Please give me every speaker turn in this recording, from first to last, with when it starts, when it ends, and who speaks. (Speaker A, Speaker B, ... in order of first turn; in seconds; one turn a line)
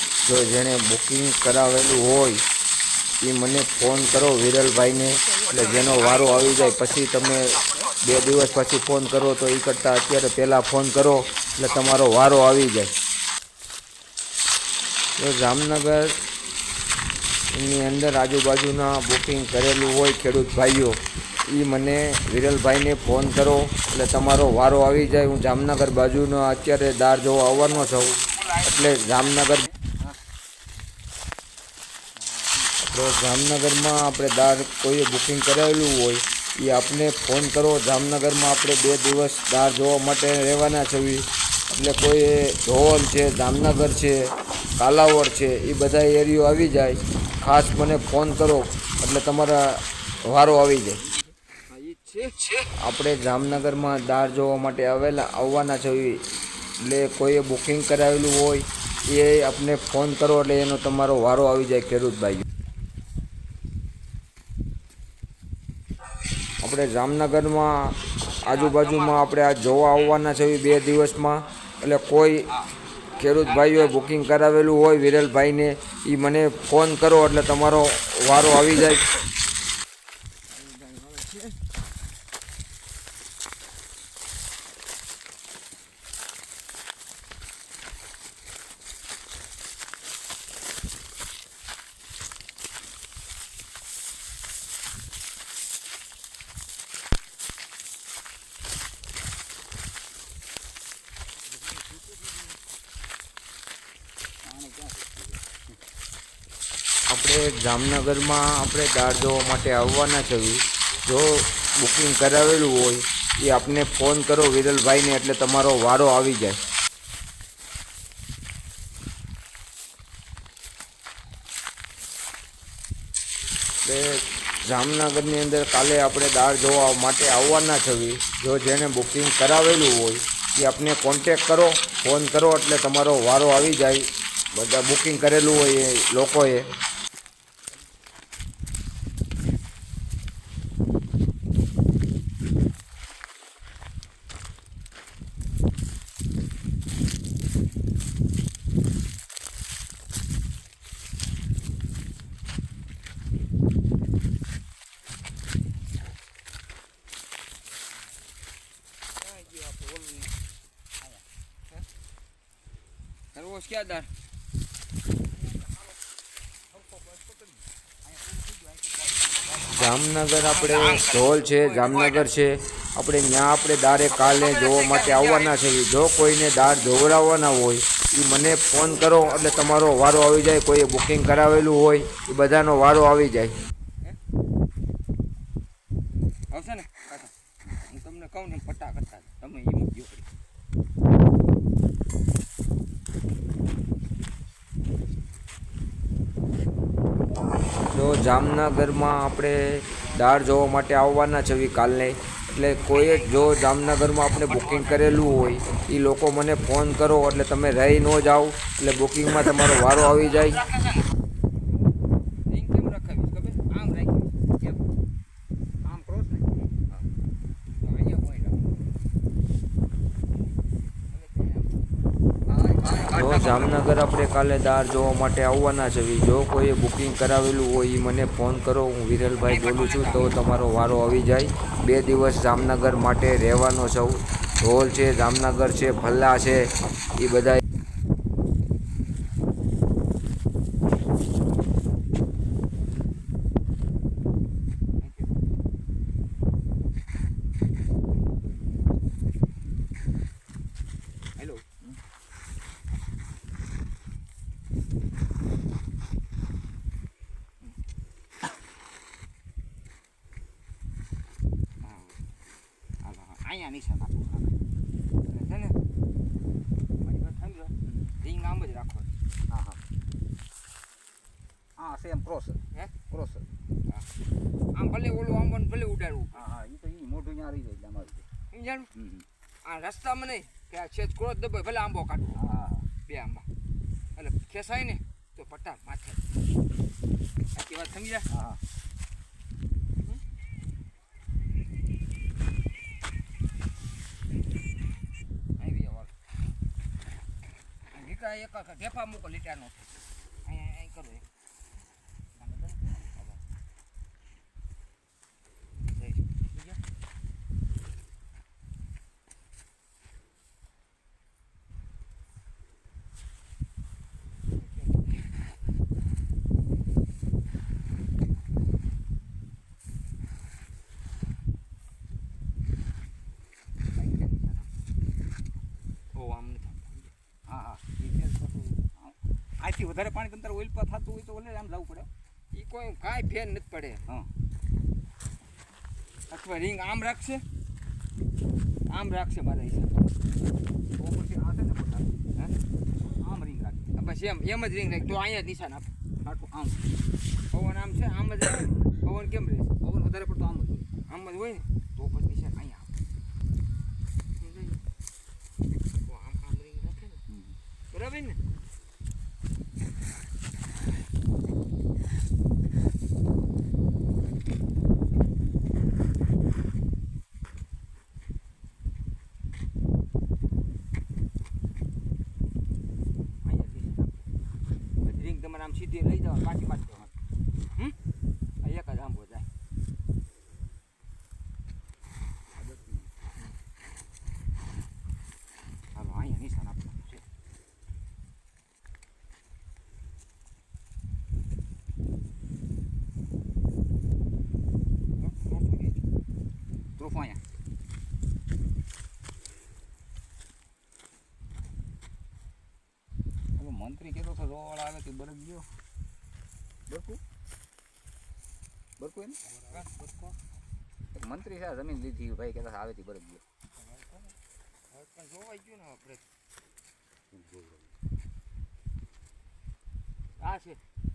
Speaker A: 0.2-2.4
Speaker A: 3.2-12.9
Speaker B: 5.7-6.3
Speaker A: 15.2-16.2
Speaker A: 17.5-29.7
Speaker C: 29.8-30.2
Speaker C: 32.2-32.8
Speaker A: 32.8-44.2
Speaker A: 44.8-51.0
Speaker B: 51.7-52.5
Speaker A: 52.5-56.2
Speaker A: 56.8-62.5
Speaker A: 66.6-72.6
Speaker B: 68.3-69.2
Speaker A: 73.1-79.1
Speaker B: 73.2-73.9
Speaker B: 80.5-81.6
Speaker C: 104.4-105.4
Speaker A: 107.1-116.6
Speaker A: 123.9-136.7
Speaker C: 157.8-158.2
Speaker B: 159.2-160.3
Speaker C: 161.0-161.3
Speaker B: 163.3-164.1
Speaker C: 166.7-169.8
Speaker A: 169.7-183.5
Speaker B: 170.4-172.0
Speaker B: 174.2-175.6
Speaker B: 186.5-190.0
Speaker C: 189.7-190.2
Speaker A: 197.9-210.7
Speaker B: 203.0-203.7
Speaker B: 204.5-205.1
Speaker B: 210.4-210.9
Speaker B: 212.5-214.4
Speaker C: 215.8-217.1
Speaker B: 217.8-218.6
Speaker B: 221.1-221.8
Speaker C: 222.5-223.8
Speaker B: 223.0-223.7
Speaker A: 223.1-237.6
Speaker B: 229.5-230.3
Speaker B: 245.0-245.3
Speaker B: 251.4-251.6
Speaker B: 261.8-262.2
Speaker B: 263.0-264.5
Speaker B: 265.3-265.8
Speaker B: 267.0-269.1
Speaker C: 267.9-268.1
Speaker C: 269.5-269.8
Speaker C: 271.8-273.5
Speaker B: 274.7-276.4
Speaker C: 276.3-278.3
Speaker B: 278.5-278.9
Speaker C: 278.9-279.3
Speaker B: 279.6-282.4
Speaker C: 282.3-282.9
Speaker B: 283.1-283.4
Speaker B: 284.2-286.2
Speaker B: 287.5-288.3
Speaker C: 288.3-288.6
Speaker B: 295.6-296.1
Speaker B: 297.9-299.9
Speaker B: 300.4-301.2
Speaker C: 302.4-303.2
Speaker B: 305.9-306.8
Speaker B: 324.0-324.7
Speaker B: 326.1-327.1
Speaker C: 327.5-332.1
Speaker B: 332.5-334.0
Speaker B: 336.3-337.4
Speaker B: 338.9-340.1
Speaker C: 341.0-342.1
Speaker C: 343.0-343.9
Speaker B: 343.9-345.9
Speaker C: 346.2-346.9
Speaker B: 347.5-349.7
Speaker C: 349.8-350.9
Speaker B: 351.1-352.9
Speaker B: 354.4-354.8
Speaker B: 356.1-357.2
Speaker C: 357.3-357.6
Speaker B: 357.9-358.4
Speaker B: 373.4-374.2
Speaker B: 375.0-377.1
Speaker B: 378.6-379.5
Speaker C: 382.6-383.1
Speaker B: 385.9-387.2
Speaker B: 395.2-396.0
Speaker C: 397.0-397.4
Speaker C: 403.6-405.7
Speaker C: 406.9-407.2
Speaker C: 409.0-409.4
Speaker B: 409.7-410.3
Speaker C: 411.1-413.4
Speaker B: 413.8-414.4
Speaker B: 414.9-416.3
Speaker C: 417.4-417.8
Speaker B: 420.4-420.8